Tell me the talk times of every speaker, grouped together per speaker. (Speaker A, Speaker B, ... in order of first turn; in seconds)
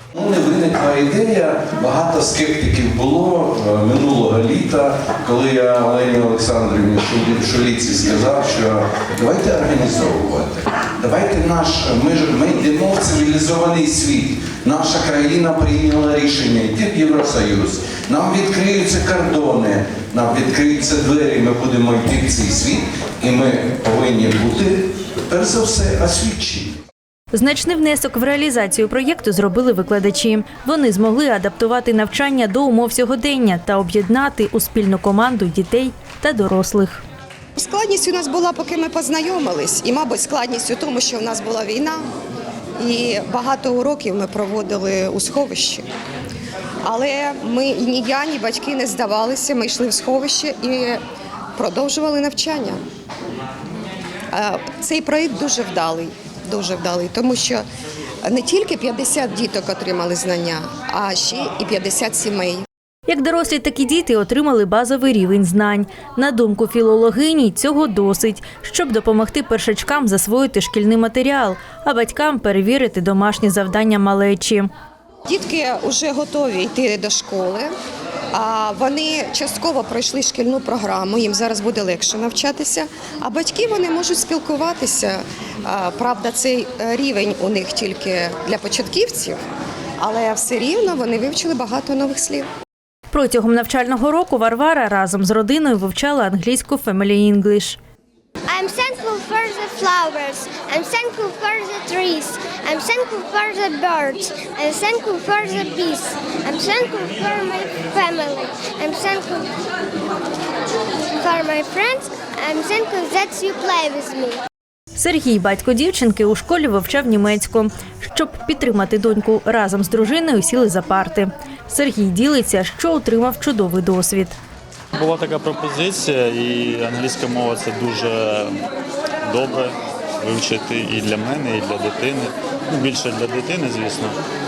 Speaker A: 0.1-26.8
Speaker B: 27.3-37.0, 63.1-74.7, 93.1-97.8, 115.0-124.4
Speaker C: 37.6-42.0, 42.8-45.9, 46.8-51.0, 51.5-52.8, 54.3-57.6, 58.2-62.6, 75.2-77.7, 78.3-89.4, 90.0-92.5
Speaker D: 98.5-109.6, 111.2-114.4
Speaker E: 125.0-128.6, 129.2-134.2